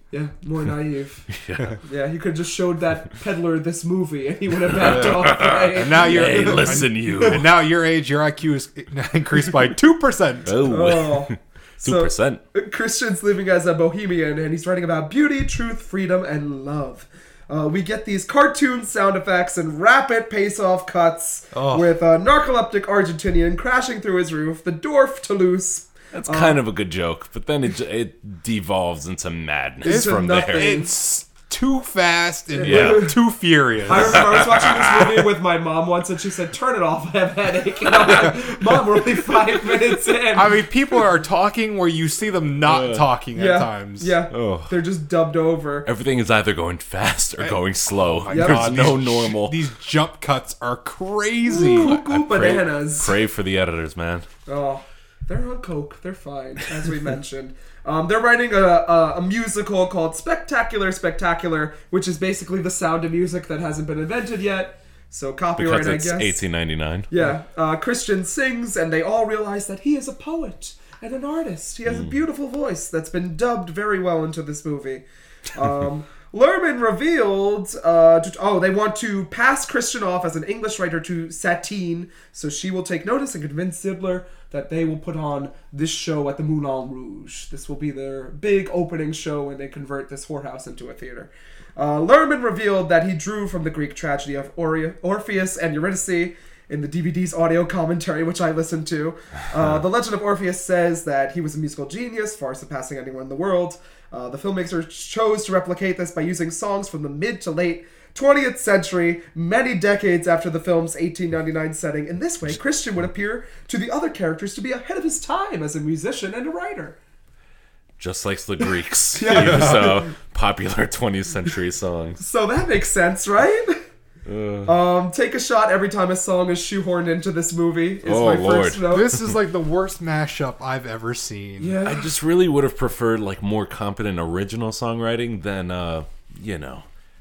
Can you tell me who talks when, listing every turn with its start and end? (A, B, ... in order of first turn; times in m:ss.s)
0:00.1-0:01.3 A
0:01.3-0:01.8 B
0:01.8-0:07.4 A
0:04.7-0:07.5 B
0:04.8-0:10.6 C
0:10.4-0:12.4 B
0:10.6-0:26.6 A
0:21.5-0:21.9 C
0:26.1-0:30.8 B
0:29.8-0:30.9 A
0:29.8-0:34.3 C
0:32.5-0:33.1 A
0:32.6-0:33.1 B
0:33.8-0:40.6 A
0:34.0-0:35.1 B
0:37.9-0:38.4 B
0:40.3-0:44.2 C
0:42.6-0:43.1 B
0:43.3-0:45.9 A
0:44.3-0:44.8 B
0:45.8-0:49.6 B
0:47.4-0:52.0 C
0:48.3-0:48.8 A
0:51.4-0:53.2 A
0:51.6-0:54.2 B
0:54.4-1:06.4 A
1:05.6-1:07.1 B
1:07.1-1:57.0 A
1:58.0-2:02.2 B
1:59.1-2:00.1 A
1:59.4-1:59.8 C
2:02.2-2:03.8 A
2:04.2-2:04.7 B
2:04.6-2:09.2 A
2:08.0-2:09.3 B
2:08.9-2:11.8 C
2:11.6-2:12.1 A
2:11.8-2:16.8 B